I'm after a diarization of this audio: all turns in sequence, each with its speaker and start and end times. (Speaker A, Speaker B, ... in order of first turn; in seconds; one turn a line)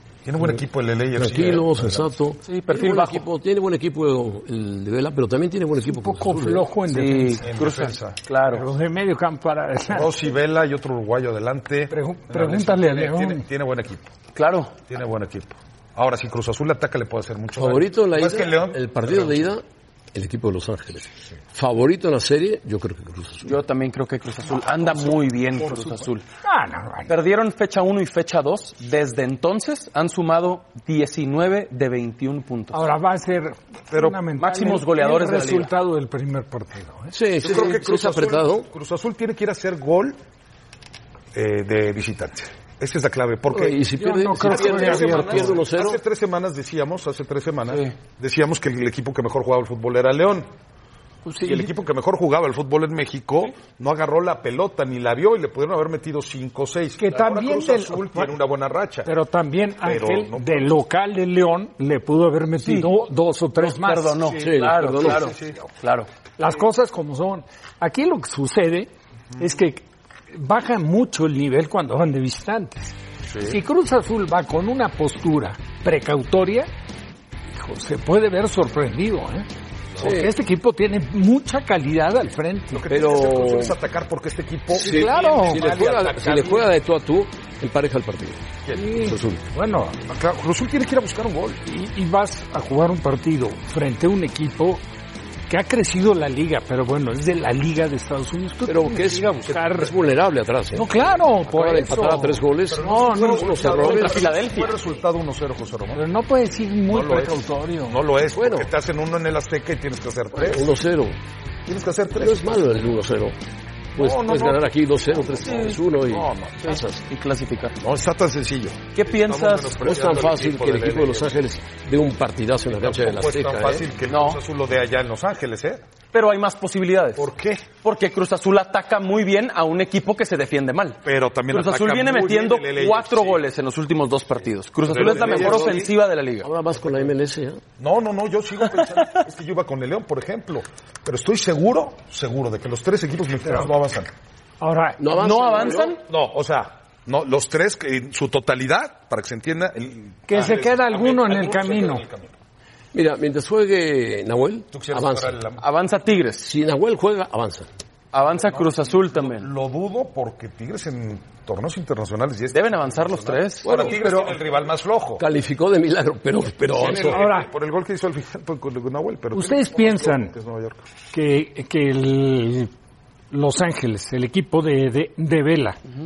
Speaker A: 0.2-2.1
Speaker B: 1.1-6.7
Speaker C: 2.5-3.2
Speaker D: 5.8-7.4
Speaker C: 6.9-8.6
Speaker A: 7.4-8.2
Speaker D: 8.5-10.2
Speaker A: 9.9-14.1
Speaker D: 11.9-13.4
Speaker C: 14.3-14.8
Speaker A: 14.9-19.5
Speaker B: 17.5-23.6
Speaker C: 23.4-26.2
Speaker D: 26.4-27.1
Speaker C: 27.1-32.8
Speaker D: 32.7-37.1
Speaker A: 33.9-34.2
Speaker C: 34.4-35.7
Speaker B: 37.1-38.7
Speaker A: 37.4-40.2
Speaker A: 41.3-43.8
Speaker B: 43.5-46.0
Speaker D: 44.0-45.5
Speaker A: 44.4-50.5
Speaker D: 51.2-51.7
Speaker A: 51.4-59.1
Speaker D: 57.0-58.3
Speaker D: 59.0-64.3
Speaker A: 59.8-60.7
Speaker C: 62.6-62.9
Speaker C: 63.6-66.1
Speaker B: 64.4-65.3
Speaker A: 65.0-65.5
Speaker D: 66.4-76.7
Speaker A: 73.3-73.5
Speaker D: 77.5-79.5
Speaker D: 80.0-82.8
Speaker B: 80.0-80.3
Speaker A: 82.7-86.6
Speaker B: 82.9-83.8
Speaker D: 84.7-85.7
Speaker B: 84.7-89.4
Speaker A: 88.6-88.9
Speaker D: 88.7-90.0
Speaker A: 90.1-91.6
Speaker D: 91.6-94.8
Speaker D: 95.5-99.9
Speaker B: 98.7-100.9
Speaker D: 100.7-104.0
Speaker B: 101.5-104.3
Speaker A: 102.7-106.0
Speaker C: 103.5-104.8
Speaker D: 105.9-108.0
Speaker A: 106.9-110.7
Speaker B: 108.3-108.7
Speaker B: 110.3-111.2
Speaker A: 111.7-112.6
Speaker B: 112.1-113.3
Speaker B: 114.0-117.0
Speaker A: 114.0-116.7
Speaker C: 115.5-115.8
Speaker C: 116.6-117.8
Speaker A: 117.8-121.4
Speaker C: 118.9-119.8
Speaker B: 119.8-123.9
Speaker A: 122.7-125.8
Speaker C: 124.1-124.4
Speaker C: 126.1-127.3
Speaker A: 127.2-127.7
Speaker C: 127.8-136.5
Speaker A: 131.0-133.4
Speaker A: 134.8-135.9
Speaker B: 134.9-135.9
Speaker B: 136.4-137.6
Speaker A: 137.8-144.1
Speaker D: 144.6-145.0
Speaker B: 145.0-145.9
Speaker C: 145.1-146.0
Speaker A: 146.0-152.3
Speaker D: 150.3-152.0
Speaker B: 152.9-155.4
Speaker A: 154.7-155.6
Speaker C: 155.6-156.5
Speaker B: 156.4-157.7
Speaker C: 158.1-159.5
Speaker A: 158.4-165.2
Speaker C: 162.5-163.9
Speaker B: 163.6-164.4
Speaker B: 165.2-167.3
Speaker A: 166.7-170.8
Speaker D: 166.9-167.5
Speaker D: 169.3-170.3
Speaker D: 171.1-172.7
Speaker D: 173.3-175.8